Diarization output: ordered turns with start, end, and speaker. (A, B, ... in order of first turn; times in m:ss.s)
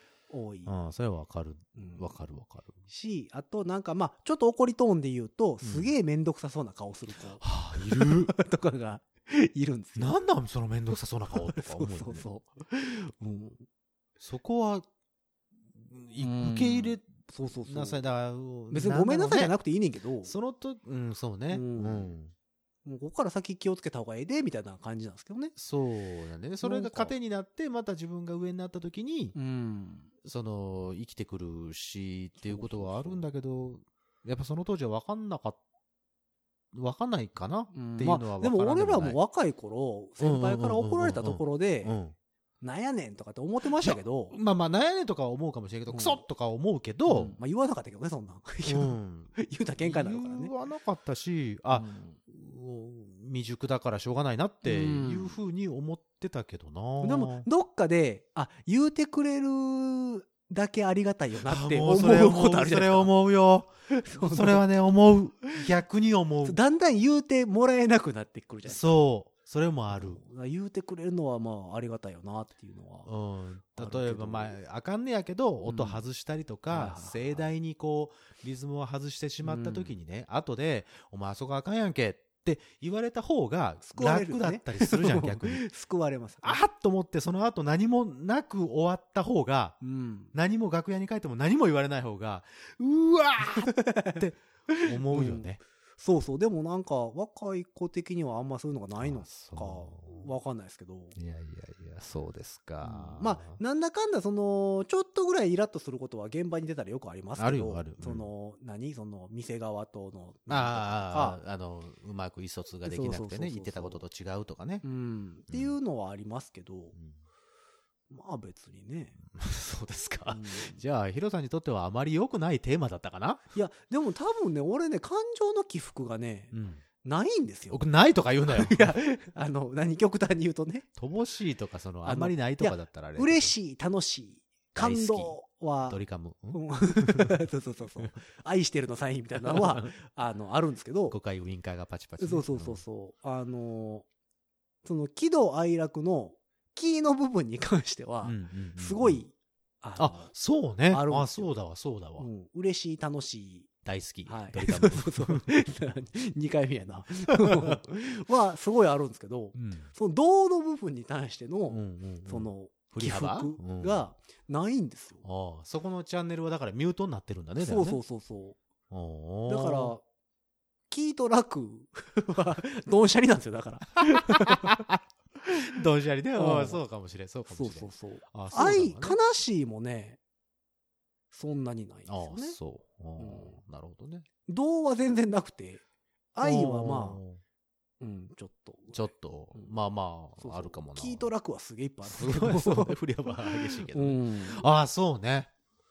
0:00.3-0:00.7 A
0:00.6-0:02.8 B
0:01.8-0:02.1 A
0:02.9-0:10.2 A
0:05.6-0:05.9 B
0:07.4-0:08.3 B
0:10.0-0:12.3 B
0:11.3-0:13.6 A
0:14.2-0:14.8 B
0:15.8-0:17.1 B
0:16.2-0:18.0 A
0:17.6-0:19.5 B
0:18.7-0:20.3 A
0:20.2-0:22.3 B
0:21.5-0:22.1 A
0:22.8-0:25.5 A
0:25.6-0:29.3 B
0:26.6-0:27.1 A
0:29.3-0:30.1 A
0:30.2-0:35.6 B
0:32.4-0:33.2 A
0:36.7-0:39.2 B
0:37.7-0:42.0 A
0:40.2-0:42.2 B
0:42.6-0:44.3 A
0:43.7-0:47.4 B
0:45.9-0:46.2 A
0:47.1-0:50.5 A
0:48.7-0:57.5 B
0:51.7-0:52.2 A
0:54.6-0:55.4 A
0:57.0-1:03.1 A
1:01.4-1:06.6 B
1:03.9-1:04.6 A
1:06.4-1:08.8 A
1:08.6-1:10.2 B
1:09.9-1:13.1 A
1:13.0-1:25.6 B
1:13.7-1:14.6 A
1:15.6-1:16.0 A
1:16.7-1:17.5 A
1:19.4-1:19.9 A
1:23.8-1:26.6 A
1:26.4-1:29.8 B
1:29.8-1:30.3 A
1:30.3-1:35.6 B
1:33.4-1:41.2 A
1:39.0-1:40.3 B
1:41.2-1:43.6 B
1:42.8-1:51.4 A
1:47.4-1:48.3 B
1:50.5-1:54.8 B
1:52.8-1:54.0 A
1:54.8-1:56.9 A
1:55.5-1:55.7 B
1:58.1-1:59.2 A
1:59.3-2:03.4 B
2:00.3-2:00.8 A
2:03.5-2:07.9 A
2:06.5-2:06.8 B
2:07.7-2:08.9 B
2:08.5-2:10.9 A
2:11.0-2:13.5 B
2:12.0-2:16.0 A
2:14.7-2:15.3 B
2:15.9-2:17.4 B
2:16.5-2:21.2 A
2:19.4-2:19.9 B
2:21.1-2:22.8 B
2:22.2-2:24.0 A
2:24.8-2:30.3 A
2:28.2-2:29.2 B
2:30.0-2:32.3 B
2:30.9-2:31.5 A
2:32.2-2:33.7 A
2:33.8-2:35.5 B
2:34.2-2:45.2 A
2:37.4-2:37.8 B
2:39.5-2:39.9 B
2:41.7-2:44.0 B
2:45.2-2:48.0 B
2:47.6-2:48.6 A
2:48.9-2:49.9 B
2:49.4-2:50.0 A
2:50.9-2:54.7 A
2:54.2-2:55.0 B
2:55.5-2:59.2 B
2:56.4-2:56.8 A
2:57.5-3:00.2 A
3:01.3-3:02.6 A
3:02.1-3:04.2 B
3:03.2-3:03.6 A
3:04.5-3:05.8 A
3:06.3-3:07.2 A
3:06.4-3:07.4 B
3:08.0-3:09.0 A
3:08.9-3:11.3 B
3:10.4-3:13.0 A
3:12.0-3:15.5 B
3:13.6-3:14.6 A